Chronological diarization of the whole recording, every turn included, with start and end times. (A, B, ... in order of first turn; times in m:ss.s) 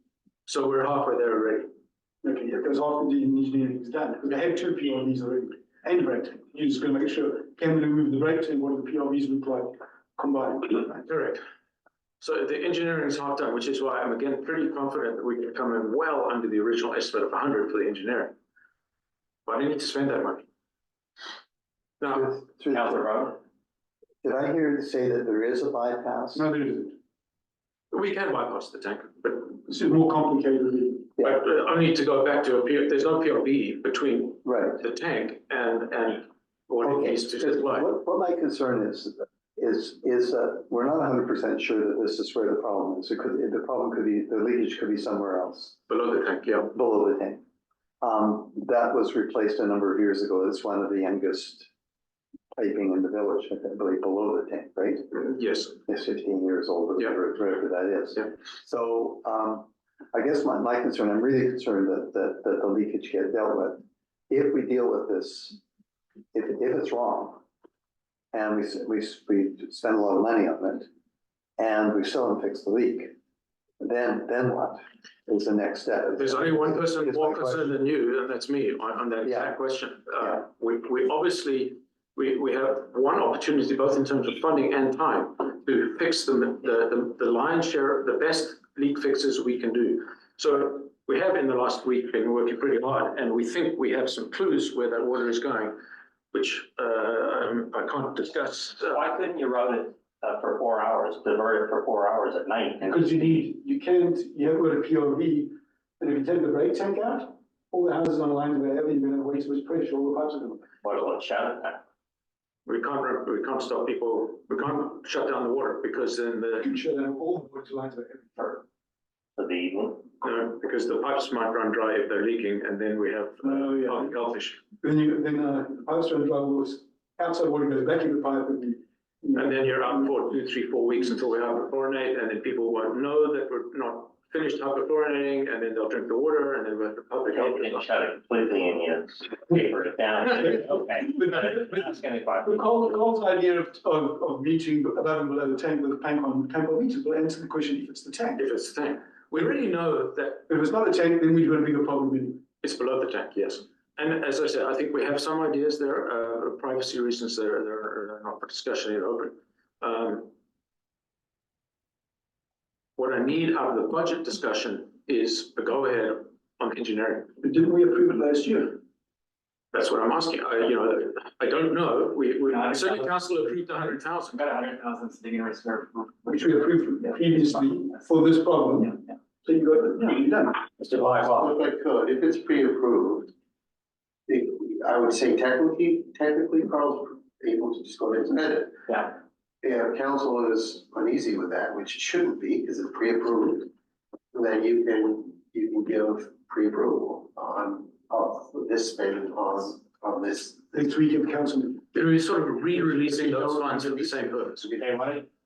0:00.5-0:01.7 A
0:02.2-0:11.0 B
0:10.9-0:11.4 A
0:12.2-0:18.3 A
0:19.4-0:20.4 A
0:22.0-0:22.4 A
0:22.1-0:23.1 C
0:22.7-0:23.4 D
0:24.2-0:26.5 C
0:26.3-0:27.0 B
0:27.9-0:29.6 A
0:29.6-0:31.1 B
0:31.2-0:37.9 A
0:34.4-0:34.8 C
0:36.8-0:45.9 C
0:45.9-0:46.7 A
0:46.7-0:47.4 C
0:48.0-0:51.7 C
0:52.5-0:55.2 C
0:55.1-0:55.8 A
0:55.8-1:05.6 C
1:06.3-1:07.4 C
1:08.3-1:10.9 C
1:11.6-1:13.1 C
1:13.8-1:17.8 C
1:16.1-1:35.8 A
1:19.2-1:19.6 C
1:20.2-1:20.4 C
1:36.3-1:39.0 A
1:38.8-1:43.3 D
1:42.8-1:50.6 B
1:50.8-1:51.8 D
1:52.6-1:56.7 A
1:56.6-1:58.6 B
1:59.4-2:00.1 D
2:00.2-2:04.6 A
2:03.4-2:04.1 B
2:04.8-2:10.1 B
2:09.3-2:17.8 A
2:17.3-2:22.7 D
2:20.8-2:21.9 B
2:22.4-2:28.4 B
2:28.4-2:30.5 A
2:30.5-2:32.4 B
2:32.6-2:40.3 A
2:43.0-2:47.3 A
2:47.4-2:48.8 B
2:49.7-2:54.5 A
2:52.6-2:53.0 E
2:54.4-2:56.4 E
2:56.3-3:00.6 B
2:57.0-2:57.4 E
3:00.8-3:01.5 D
3:01.3-3:03.3 F
3:04.3-3:13.7 F
3:08.9-3:09.1 D
3:14.3-3:20.8 F
3:20.7-3:21.8 B
3:21.9-3:24.7 A
3:22.7-3:24.9 F
3:24.7-3:25.3 D